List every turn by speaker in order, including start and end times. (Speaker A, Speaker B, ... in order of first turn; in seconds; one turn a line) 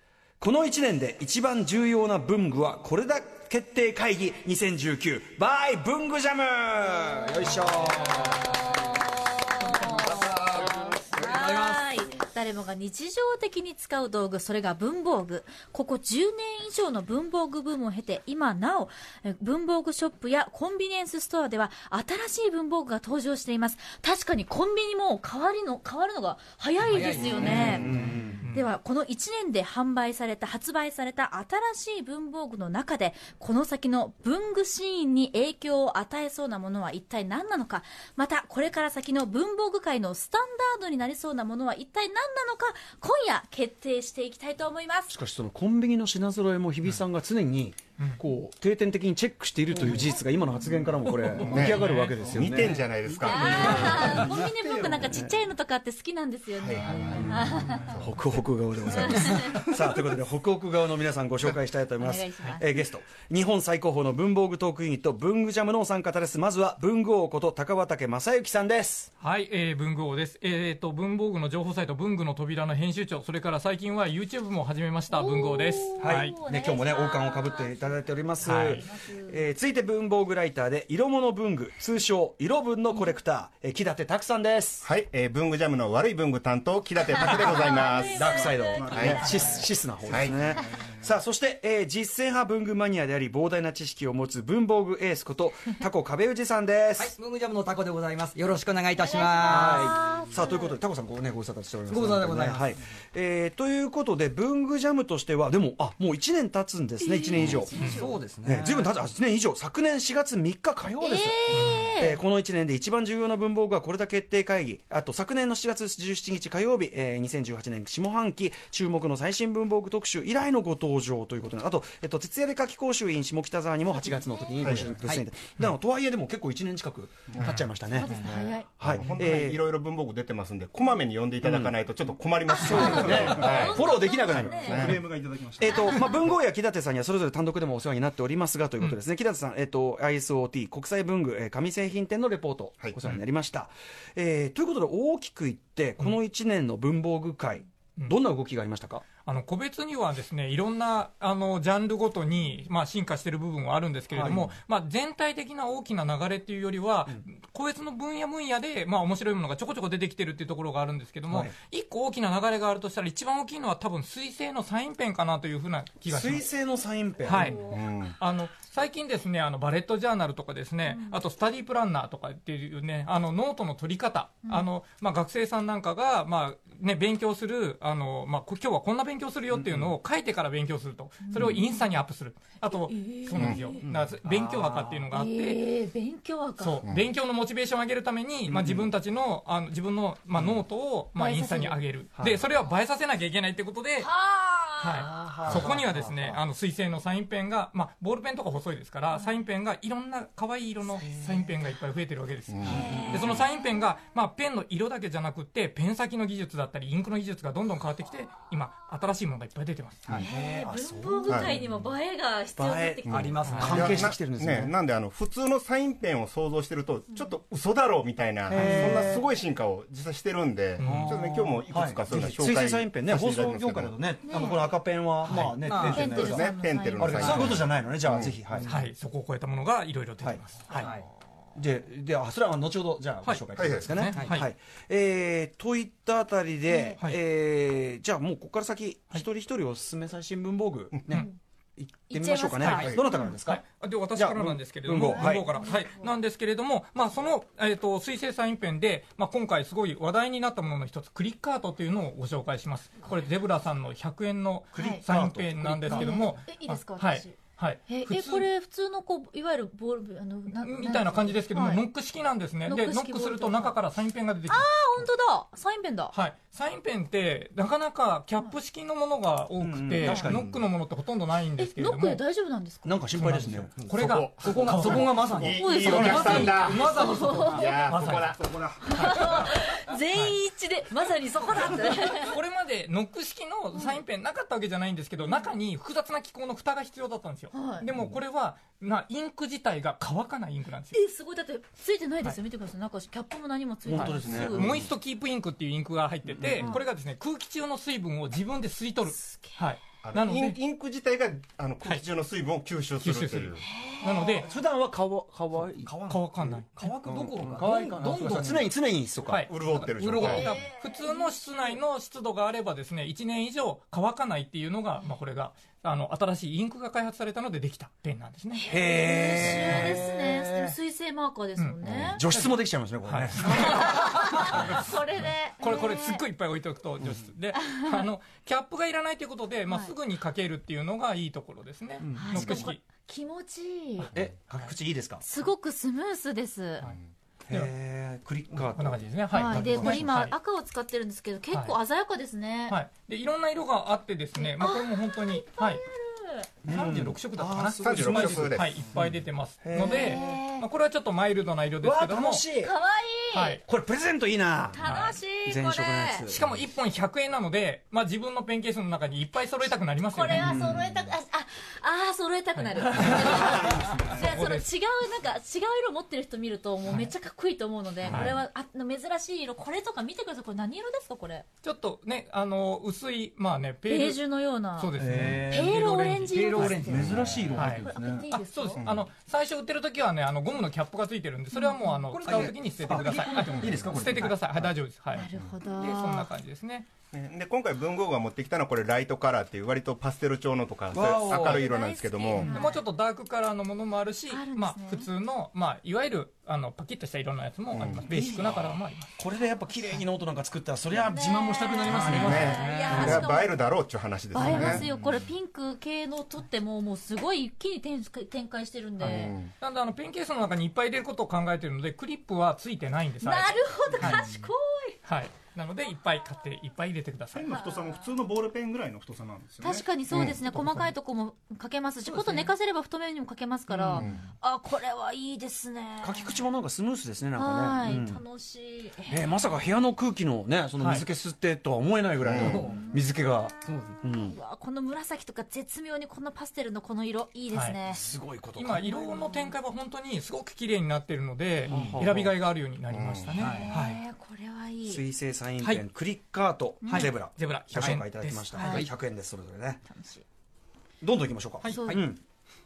Speaker A: 0.4-8.8
Speaker B: 8.1-8.9
Speaker C: 8.1-27.9
Speaker A: 9.7-10.5
Speaker B: 9.8-11.9
Speaker B: 26.8-28.4
Speaker A: 27.2-28.4
Speaker D: 28.4-28.7
Speaker C: 28.5-45.1
Speaker A: 45.1-52.9
Speaker E: 51.4-54.2
Speaker F: 51.5-55.2
Speaker D: 51.6-52.2
Speaker C: 53.2-57.9
Speaker A: 53.6-54.3
Speaker A: 55.0-55.4
Speaker E: 56.6-58.2
Speaker A: 57.0-69.1
Speaker C: 58.9-59.6
Speaker E: 59.3-59.6
Speaker C: 62.0-62.7
Speaker D: 69.2-76.4
Speaker C: 75.1-79.4
Speaker A: 76.0-84.9
Speaker D: 78.4-78.8
Speaker E: 84.8-89.2
Speaker C: 87.1-89.7
Speaker A: 88.0-97.2
Speaker F: 88.6-90.3
Speaker E: 90.1-90.4
Speaker B: 97.0-100.2
Speaker C: 99.0-100.8
Speaker A: 99.4-107.9
Speaker B: 101.9-102.7
Speaker C: 107.0-108.2
Speaker B: 107.5-109.0
Speaker A: 108.4-128.2
Speaker C: 111.0-112.2
Speaker D: 111.5-111.9
Speaker C: 124.2-124.8
Speaker E: 124.6-125.1
Speaker E: 127.3-135.0
Speaker C: 127.9-128.7
Speaker A: 128.8-129.6
Speaker A: 131.4-131.7
Speaker C: 132.5-135.0
Speaker A: 132.6-135.1
Speaker F: 132.8-135.9
Speaker A: 135.6-149.1
Speaker C: 135.6-136.2
Speaker D: 149.2-166.5
Speaker A: 154.1-154.6
Speaker A: 166.1-167.6
Speaker D: 167.2-167.6
Speaker C: 167.3-167.8
Speaker E: 167.7-168.2
Speaker D: 168.2-185.6
Speaker C: 170.9-171.2
Speaker A: 179.5-179.9
Speaker C: 181.2-181.9
Speaker C: 182.7-183.8
Speaker A: 183.8-185.1
Speaker C: 185.1-186.8
Speaker D: 186.6-194.1
Speaker C: 191.2-191.8
Speaker C: 194.0-195.2
Speaker D: 194.8-210.1
Speaker A: 195.0-196.4
Speaker C: 199.1-199.4
Speaker A: 200.9-201.5
Speaker E: 202.5-203.3
Speaker C: 202.7-203.8
Speaker A: 202.7-203.3
Speaker A: 210.1-211.8
Speaker C: 210.2-213.7
Speaker E: 211.3-211.6
Speaker A: 212.6-214.7
Speaker E: 213.1-224.0
Speaker B: 213.1-214.1
Speaker D: 213.5-213.8
Speaker B: 218.5-219.2
Speaker A: 218.5-219.2
Speaker D: 220.8-221.2
Speaker A: 220.8-228.7
Speaker C: 224.3-224.7
Speaker B: 225.3-226.2
Speaker C: 225.8-227.6
Speaker E: 225.9-228.4
Speaker B: 227.2-227.5
Speaker D: 228.7-230.9
Speaker A: 230.2-230.9
Speaker B: 230.8-231.1
Speaker A: 231.6-243.6
Speaker D: 233.2-234.5
Speaker E: 233.6-234.0
Speaker B: 234.1-234.4
Speaker C: 236.7-237.0
Speaker C: 242.1-243.3
Speaker D: 242.6-258.5
Speaker E: 242.8-243.1
Speaker A: 244.2-245.5
Speaker C: 245.0-246.1
Speaker A: 254.7-256.4
Speaker C: 254.8-255.1
Speaker C: 255.9-261.8
Speaker D: 260.5-264.7
Speaker C: 262.7-263.8
Speaker C: 264.5-266.1
Speaker D: 266.1-272.2
Speaker A: 269.6-270.5
Speaker C: 270.0-270.3
Speaker B: 270.3-270.6
Speaker C: 271.6-273.0
Speaker A: 272.8-273.7
Speaker D: 273.2-278.3
Speaker B: 273.8-278.3
Speaker E: 273.9-278.5
Speaker C: 275.5-277.9
Speaker F: 278.3-279.2
Speaker C: 278.8-282.4
Speaker D: 279.0-279.4
Speaker D: 282.1-291.0
Speaker C: 283.8-284.0
Speaker C: 287.5-287.9
Speaker C: 290.9-294.8
Speaker A: 293.9-294.9
Speaker D: 293.9-300.6
Speaker A: 296.3-296.8
Speaker C: 299.2-299.6
Speaker E: 300.0-303.6
Speaker D: 303.0-304.5
Speaker C: 303.6-304.5
Speaker A: 304.1-309.5
Speaker B: 305.8-308.7
Speaker D: 306.1-306.7
Speaker D: 309.2-318.7
Speaker E: 309.5-310.6
Speaker B: 309.9-310.5
Speaker C: 310.2-311.8
Speaker C: 318.5-322.2
Speaker A: 318.7-320.8
Speaker D: 321.6-332.8
Speaker A: 321.8-323.9
Speaker C: 323.4-326.2
Speaker C: 327.6-328.0
Speaker C: 329.7-329.9
Speaker B: 332.0-332.4
Speaker A: 332.1-332.6
Speaker C: 332.2-334.1
Speaker D: 334.0-334.7
Speaker A: 334.1-335.2
Speaker C: 335.2-336.9
Speaker A: 337.5-340.1
Speaker D: 338.6-340.4
Speaker C: 339.3-342.8
Speaker D: 341.5-341.8
Speaker D: 342.7-345.8
Speaker C: 344.4-346.5
Speaker A: 346.6-350.4
Speaker D: 346.6-352.4
Speaker E: 347.8-348.9
Speaker C: 349.8-350.7
Speaker A: 351.8-352.7
Speaker C: 352.6-353.6
Speaker D: 353.3-353.6
Speaker A: 353.7-354.9
Speaker C: 354.7-356.3
Speaker D: 354.8-355.2
Speaker A: 355.4-356.6
Speaker D: 356.3-360.5
Speaker C: 360.1-371.5
Speaker A: 360.3-361.1
Speaker D: 362.6-364.7
Speaker A: 363.4-364.2
Speaker A: 368.0-368.4
Speaker D: 368.1-368.3
Speaker D: 371.6-374.2
Speaker C: 373.9-374.9
Speaker D: 374.8-376.8
Speaker A: 375.0-375.9
Speaker C: 375.5-377.2
Speaker B: 376.3-377.6
Speaker A: 376.6-378.3
Speaker D: 377.5-385.3
Speaker C: 377.8-378.8
Speaker E: 378.8-379.1
Speaker C: 381.5-382.1
Speaker B: 382.1-384.3
Speaker A: 382.2-384.7
Speaker C: 385.1-386.3
Speaker D: 385.8-386.9
Speaker E: 387.1-392.6
Speaker A: 390.9-391.6
Speaker C: 391.3-392.8
Speaker D: 392.4-399.1
Speaker C: 394.3-395.1
Speaker E: 397.7-398.1
Speaker A: 398.1-403.2
Speaker C: 401.1-403.6
Speaker B: 401.9-403.2
Speaker E: 402.1-404.9
Speaker C: 404.3-409.4
Speaker B: 404.5-404.8
Speaker D: 409.0-414.3
Speaker E: 409.0-409.5
Speaker C: 413.2-415.0
Speaker D: 415.1-417.5
Speaker F: 417.4-419.9
Speaker C: 417.5-418.0
Speaker C: 419.6-426.4
Speaker D: 420.2-420.9
Speaker D: 422.1-422.4
Speaker E: 423.9-424.2
Speaker A: 426.0-428.2
Speaker C: 427.4-429.3
Speaker A: 429.1-434.4
Speaker D: 430.8-431.1
Speaker E: 432.2-432.6
Speaker B: 432.4-432.9
Speaker C: 432.7-433.0
Speaker B: 433.6-434.0
Speaker C: 434.1-438.1
Speaker D: 437.5-437.8
Speaker A: 437.9-439.0
Speaker D: 438.6-444.0
Speaker C: 438.8-439.6
Speaker B: 441.7-442.0
Speaker A: 441.7-442.3
Speaker E: 442.9-443.4
Speaker B: 443.4-443.8
Speaker C: 443.4-445.0
Speaker A: 444.9-449.8
Speaker C: 446.8-447.1
Speaker D: 446.9-448.7
Speaker C: 448.5-448.9
Speaker B: 448.6-448.9
Speaker C: 449.9-450.2
Speaker A: 451.0-452.2
Speaker D: 451.6-451.9
Speaker C: 451.6-452.0